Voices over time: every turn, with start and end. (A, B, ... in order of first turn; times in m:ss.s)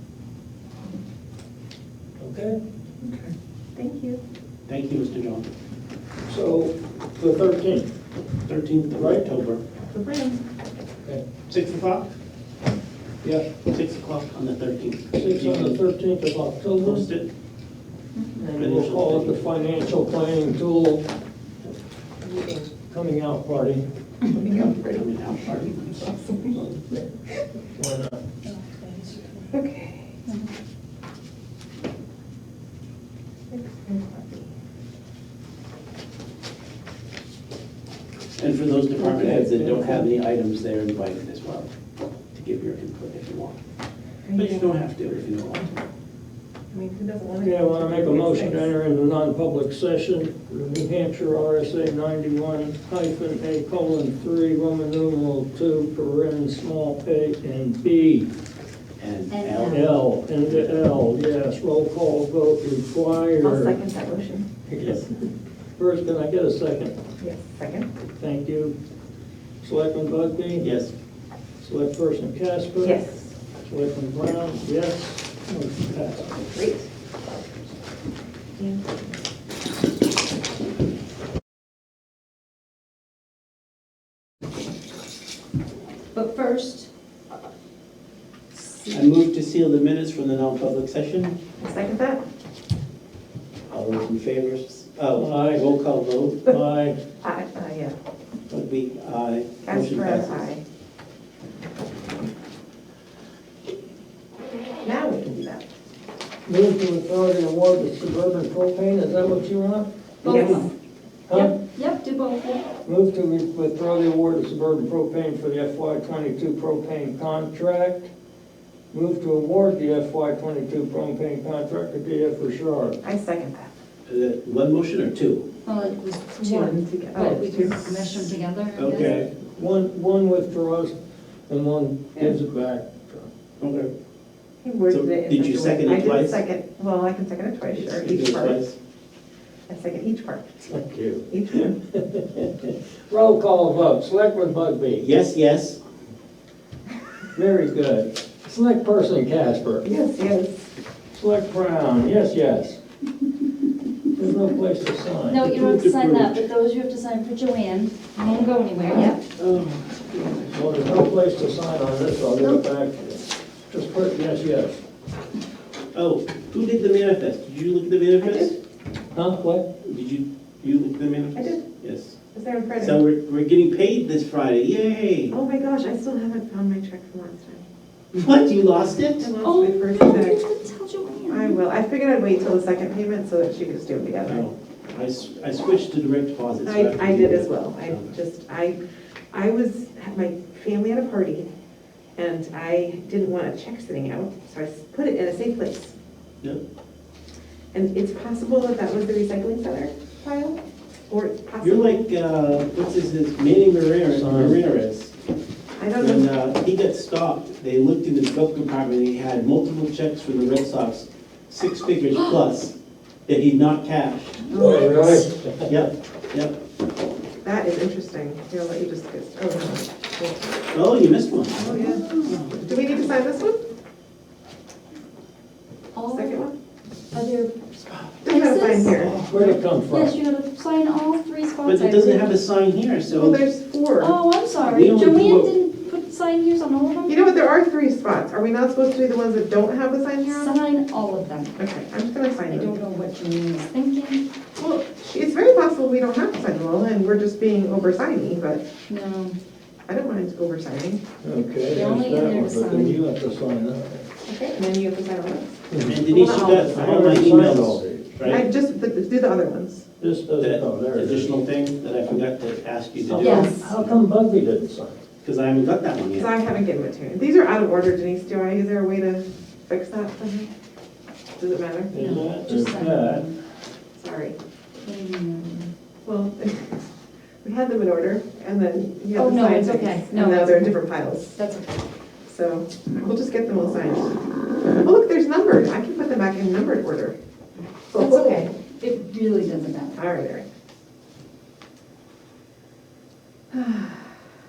0:02.2-0:02.6 A
0:03.0-0:04.2 B
0:04.7-0:05.4 C
0:06.3-0:07.9 A
0:08.4-0:09.6 C
0:09.0-0:09.2 A
0:09.8-0:10.4 B
0:11.5-0:12.1 C
0:13.2-0:13.5 A
0:13.6-0:15.8 C
0:15.1-0:17.0 A
0:16.8-0:17.3 C
0:18.4-0:21.0 A
0:18.6-0:19.4 C
0:22.2-0:22.7 B
0:22.9-0:23.8 A
0:24.3-0:25.0 B
0:24.7-0:26.8 C
0:26.0-0:26.5 B
0:27.7-0:28.2 A
0:28.4-0:29.5 D
0:29.5-0:30.1 B
0:30.2-0:30.5 D
0:33.5-0:34.5 B
0:38.4-0:41.7 C
0:39.0-0:40.1 A
0:42.3-0:43.6 C
0:44.2-0:44.7 B
0:44.4-0:45.7 C
0:46.7-0:48.7 B
0:47.4-0:58.3 A
0:59.0-1:00.0 C
0:59.3-0:59.8 D
0:59.6-1:03.8 A
1:03.4-1:04.5 B
1:04.7-1:05.1 A
1:05.8-1:06.9 A
1:07.2-1:07.9 B
1:08.2-1:08.7 A
1:09.6-1:10.8 A
1:10.6-1:10.9 C
1:11.6-1:13.0 A
1:12.8-1:13.3 B
1:13.6-1:16.4 A
1:16.4-1:16.9 B
1:18.6-1:18.8 B
1:26.1-1:26.9 D
1:28.9-1:31.4 C
1:31.6-1:32.2 B
1:33.7-1:36.4 C
1:35.1-1:35.6 A
1:36.4-1:37.0 A
1:37.2-1:38.0 B
1:38.5-1:40.5 C
1:39.6-1:40.6 B
1:44.8-1:45.6 B
1:46.4-1:49.9 A
1:50.2-1:50.7 B
1:50.2-1:50.7 D
1:50.3-1:50.6 C
1:51.3-1:51.6 A
1:51.3-1:52.7 D
1:52.8-1:58.1 A
1:58.9-2:03.0 A
2:03.0-2:03.7 B
2:04.0-2:05.4 C
2:05.6-2:09.2 D
2:06.3-2:07.8 B
2:08.8-2:09.3 C
2:09.0-2:11.0 A
2:11.5-2:13.3 A
2:13.6-2:13.9 C
2:14.6-2:18.6 B
2:14.9-2:16.4 C
2:17.7-2:18.8 C
2:19.7-2:20.7 B
2:20.6-2:25.0 A
2:21.3-2:21.7 B
2:25.0-2:25.8 C
2:27.3-2:29.8 A
2:29.8-2:30.7 B
2:31.1-2:32.8 A
2:34.1-2:35.4 A
2:35.3-2:39.2 D
2:35.4-2:36.4 C
2:39.4-2:40.7 C
2:40.5-2:44.8 A
2:45.9-2:48.6 C
2:48.2-2:48.5 B
2:49.1-2:49.7 A
2:49.8-2:52.2 C
2:51.3-2:51.6 B
2:52.3-2:53.0 B
2:52.8-2:55.4 C
2:55.3-2:57.6 B
2:58.1-2:59.3 C
2:59.2-3:00.4 B
2:59.4-3:01.6 D
3:01.3-3:04.5 B
3:04.2-3:08.1 C
3:06.6-3:08.8 B
3:09.3-3:11.5 B
3:12.2-3:15.9 B
3:17.7-3:22.0 B
3:21.6-3:25.1 C
3:24.1-3:24.6 A
3:25.8-3:26.3 B
3:26.0-3:32.7 C
3:33.3-3:34.4 C
3:34.4-3:35.3 D
3:34.5-3:35.8 A
3:35.7-3:36.5 C
3:37.4-3:40.6 B
3:40.7-3:42.4 C
3:41.6-3:43.6 B
3:45.9-3:46.4 D
3:46.1-3:46.5 B
3:47.1-3:49.1 D
3:48.2-3:49.3 B
3:49.1-3:49.5 C
3:49.3-3:50.2 A
3:49.9-3:52.4 D
3:51.6-3:53.4 C
3:53.1-3:54.2 B
3:54.0-3:57.4 D
3:54.6-3:55.5 C
3:57.0-4:00.6 B
4:00.2-4:01.6 D
4:01.6-4:02.7 B
4:02.5-4:04.2 D
4:04.6-4:08.6 B
4:08.9-4:09.4 D
4:09.9-4:11.0 B
4:11.2-4:14.0 A
4:11.7-4:13.0 D
4:14.2-4:16.8 B
4:15.7-4:18.2 A
4:15.9-4:18.4 C
4:18.2-4:19.8 B
4:20.0-4:21.3 A
4:20.4-4:24.0 C
4:23.1-4:25.0 A
4:23.2-4:23.7 D
4:25.2-4:26.3 C
4:26.1-4:30.5 B
4:31.4-4:31.9 B
4:31.9-4:33.3 A
4:31.9-4:33.3 D
4:34.0-4:34.4 B
4:34.8-4:35.7 D
4:36.0-4:36.8 B
4:37.4-4:41.4 B
4:39.1-4:40.8 D
4:41.3-4:41.8 D
4:42.3-4:44.1 B
4:44.8-4:47.2 B
4:47.9-4:48.5 B
4:47.9-4:50.0 D
4:49.9-4:50.4 B
4:53.5-4:54.1 B